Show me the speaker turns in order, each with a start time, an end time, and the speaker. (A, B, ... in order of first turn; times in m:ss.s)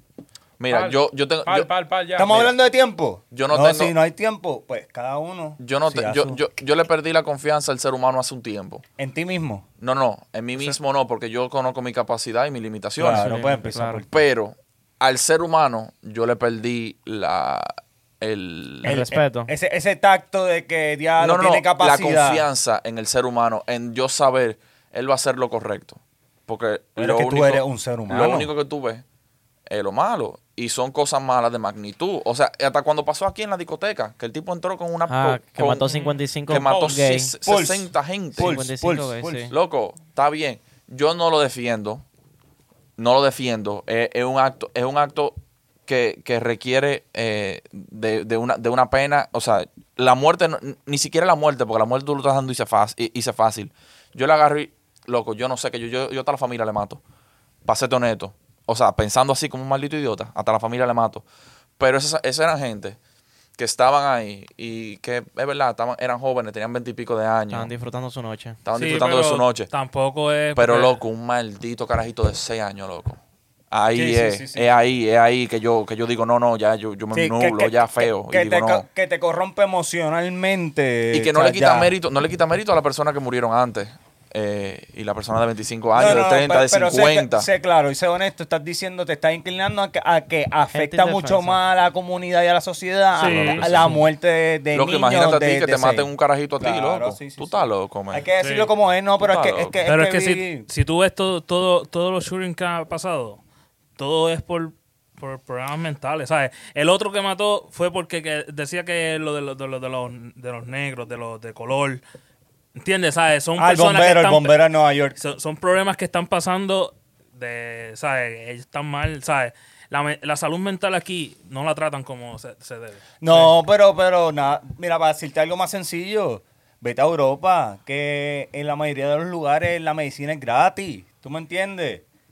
0:00.6-0:01.7 A
0:00.7-0:02.5 B
0:02.2-0:06.4 C
0:03.3-0:03.9 A
0:05.6-0:08.8 A
0:09.0-0:09.6 C
0:09.8-0:19.1 A
0:13.0-0:14.1 C
0:13.0-0:14.0 D
0:18.8-0:19.5 D
0:18.8-0:22.4 C
0:21.2-0:29.0 A
0:27.0-0:28.5 C
0:29.7-0:35.9 A
0:35.1-0:37.3 D
0:35.9-0:36.9 B
0:36.4-0:38.6 A
0:37.4-0:39.5 C
0:38.4-0:39.5 D
0:39.5-0:42.0 A
0:43.0-0:57.0 A
0:57.6-1:01.2 A
1:01.8-1:03.0 A
1:03.6-1:07.7 A
1:07.5-1:08.6 D
1:08.6-1:09.7 A
1:08.7-1:09.4 B
1:09.7-1:11.0 E
1:10.6-1:13.2 A
1:13.7-1:18.8 A
1:13.9-1:14.7 C
1:17.1-1:21.9 C
1:21.1-1:27.5 A
1:25.9-1:40.7 C
1:30.7-1:31.6 D
1:33.2-1:33.7 E
1:33.2-1:33.9 A
1:34.7-1:38.2 A
1:38.4-1:38.7 B
1:39.2-1:39.7 A
1:39.8-1:43.4 E
1:44.0-1:52.0 E
1:52.8-1:54.6 E
1:53.6-1:55.1 C
1:55.2-2:03.5 E
2:03.2-2:12.0 C